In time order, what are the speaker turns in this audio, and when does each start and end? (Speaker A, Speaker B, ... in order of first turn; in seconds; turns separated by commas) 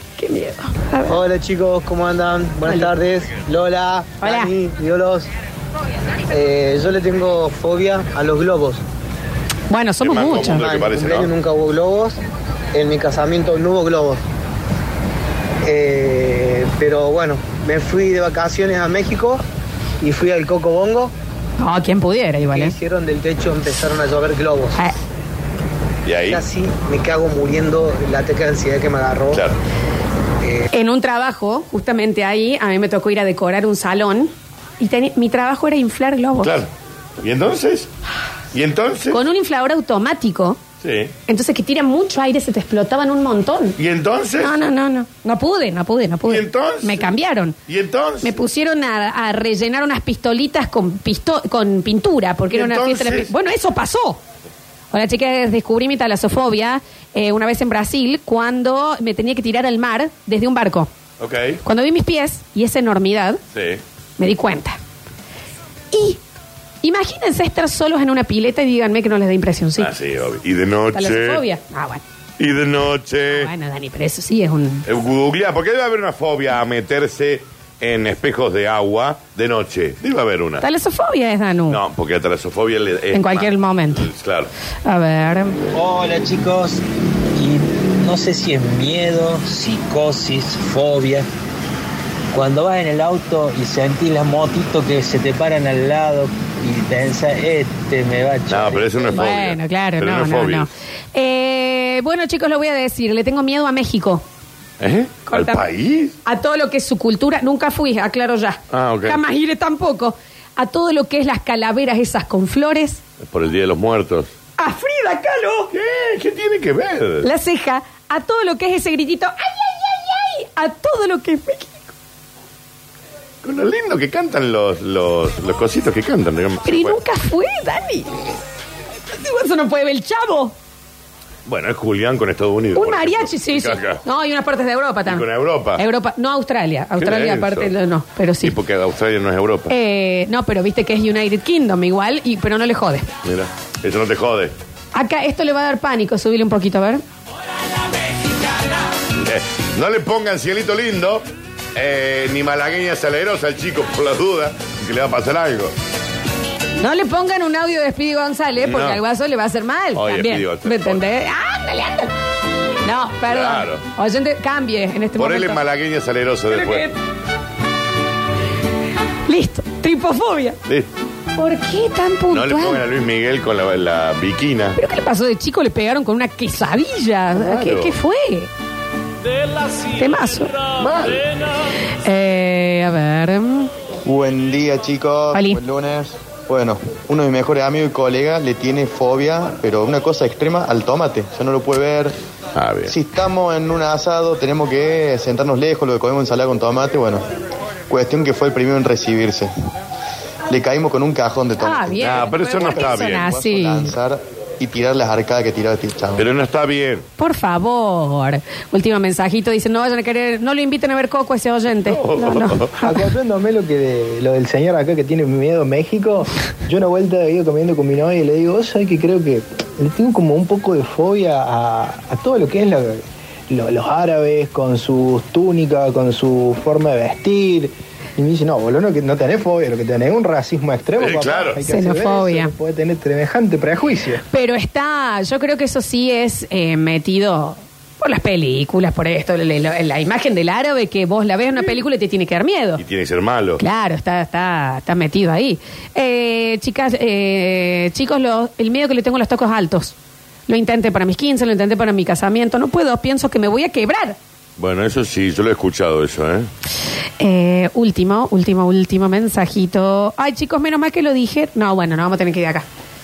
Speaker A: 0.2-1.2, Speaker B: 1.1-5.3, Speaker A: 4.2-4.5, Speaker B: 6.3-8.8, Speaker A: 9.7-10.7, Speaker C: 10.0-11.3, Speaker B: 10.5-12.2, Speaker B: 12.7-14.2, Speaker B: 15.6-19.4, Speaker B: 20.0-21.1, Speaker A: 21.6-22.7, Speaker B: 22.4-24.9, Speaker C: 26.1-26.4, Speaker B: 26.3-29.4, Speaker C: 29.3-29.6, Speaker A: 30.7-36.5, Speaker C: 36.4-36.7, Speaker C: 37.2-37.9, Speaker C: 38.5-39.2, Speaker A: 39.1-40.6, Speaker C: 40.8-41.1, Speaker A: 41.3-43.8, Speaker C: 43.8-44.5, Speaker A: 44.4-47.6, Speaker C: 46.2-47.1, Speaker C: 47.7-48.4, Speaker A: 48.2-54.2, Speaker C: 52.5-53.3, Speaker A: 54.9-60.9, Speaker C: 61.2-61.6, Speaker A: 61.6-63.4, Speaker C: 63.5-63.8, Speaker A: 64.2-64.8, Speaker A: 65.9-66.2, Speaker A: 66.8-69.9, Speaker C: 69.8-71.4, Speaker A: 70.9-72.0, Speaker C: 72.4-73.5, Speaker A: 73.3-74.9, Speaker C: 74.9-80.7, Speaker A: 80.6-81.8, Speaker C: 81.7-84.5, Speaker A: 83.1-84.1, Speaker A: 84.8-85.6, Speaker D: 85.7-86.8, Speaker D: 87.4-91.3, Speaker D: 92.3-99.1, Speaker C: 98.5-100.7, Speaker A: 99.1-104.2, Speaker C: 104.8-106.2, Speaker A: 105.3-105.7, Speaker A: 106.2-113.0, Speaker C: 108.7-109.2, Speaker C: 113.2-114.3, Speaker A: 114.6-115.7, Speaker C: 115.7-117.3, Speaker A: 117.2-121.9, Speaker C: 123.4-127.0, Speaker A: 126.7-128.3, Speaker A: 129.1-130.5, Speaker C: 131.5-134.0, Speaker A: 132.8-138.6, Speaker C: 135.1-135.8, Speaker C: 137.0-137.7, Speaker C: 138.4-139.7, Speaker A: 139.7-143.1, Speaker C: 143.2-144.5, Speaker A: 144.9-147.0, Speaker C: 149.2-155.7, Speaker A: 156.8-162.1, Speaker C: 158.6-159.0, Speaker C: 159.9-161.0, Speaker A: 162.8-165.6, Speaker C: 163.3-163.8, Speaker C: 165.2-166.9, Speaker A: 166.5-167.0, Speaker A: 169.3-170.6, Speaker A: 171.4-172.8, Speaker C: 172.3-174.8, Speaker A: 174.8-178.5, Speaker C: 177.3-177.9, Speaker A: 179.9-180.7, Speaker C: 180.8-181.3, Speaker A: 182.0-183.7, Speaker E: 184.1-192.2, Speaker A: 185.3-185.6, Speaker C: 192.6-192.9, Speaker E: 192.9-197.3, Speaker E: 197.9-199.5, Speaker E: 200.5-206.3, Speaker A: 201.6-203.9, Speaker C: 202.0-203.4, Speaker C: 206.2-207.0, Speaker A: 207.2-213.1, Speaker C: 211.8-212.8, Speaker F: 212.8-234.2, Speaker C: 231.0-231.6, Speaker A: 231.7-232.5, Speaker A: 234.3-242.8, Speaker C: 242.8-243.6, Speaker A: 243.6-249.9, Speaker A: 250.5-254.2, Speaker C: 254.6-256.5, Speaker A: 257.2-262.6